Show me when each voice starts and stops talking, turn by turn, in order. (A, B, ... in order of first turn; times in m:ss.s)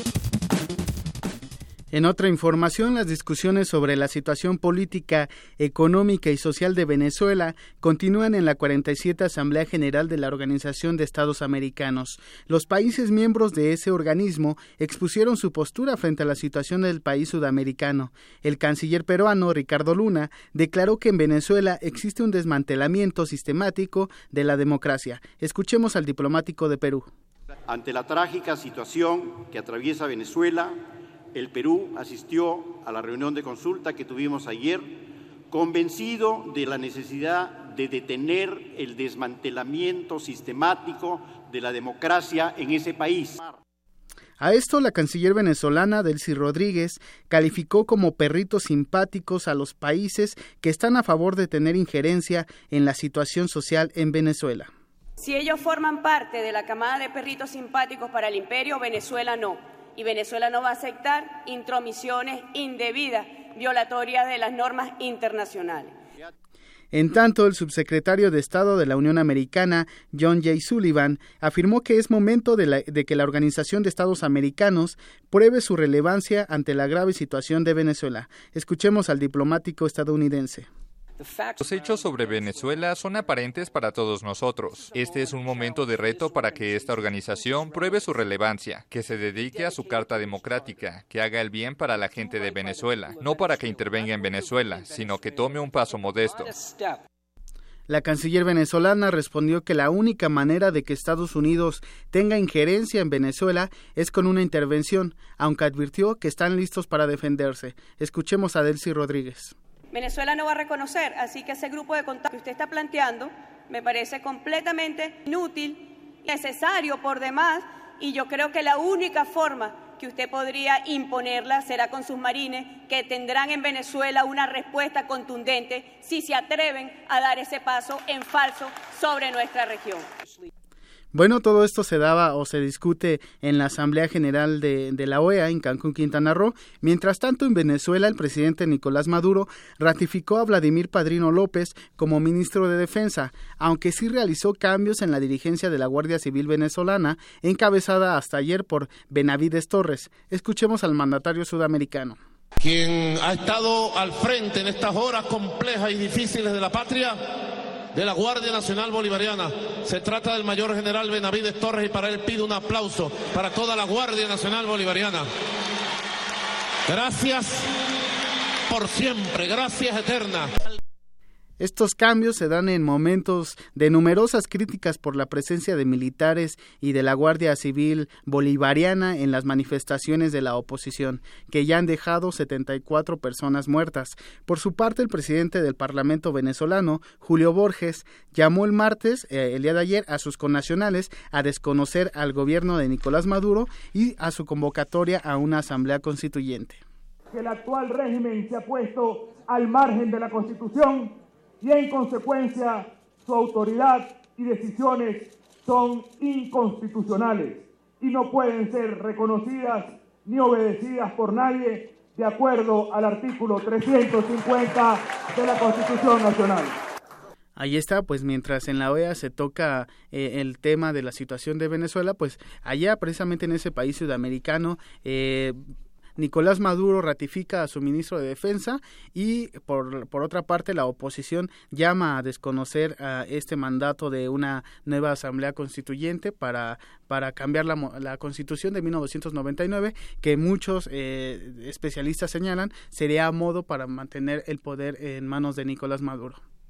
0:01.9-0:27.1 A
0:27.7-0:30.8 B
0:31.3-0:43.6 B
0:44.4-0:54.7 A
0:55.2-1:05.9 C
1:06.9-1:20.7 A
1:21.6-1:36.5 D
1:37.9-1:49.6 A
1:49.9-2:10.1 C
2:11.1-2:32.2 A
2:32.8-2:37.1 E
2:38.0-2:39.3 E
2:39.9-2:45.0 E
2:46.9-2:47.4 E
2:48.7-2:50.4 E
2:51.6-3:16.8 A
3:17.3-3:21.1 F
3:21.6-3:36.8 F
3:37.6-3:45.6 A
3:46.2-4:06.4 A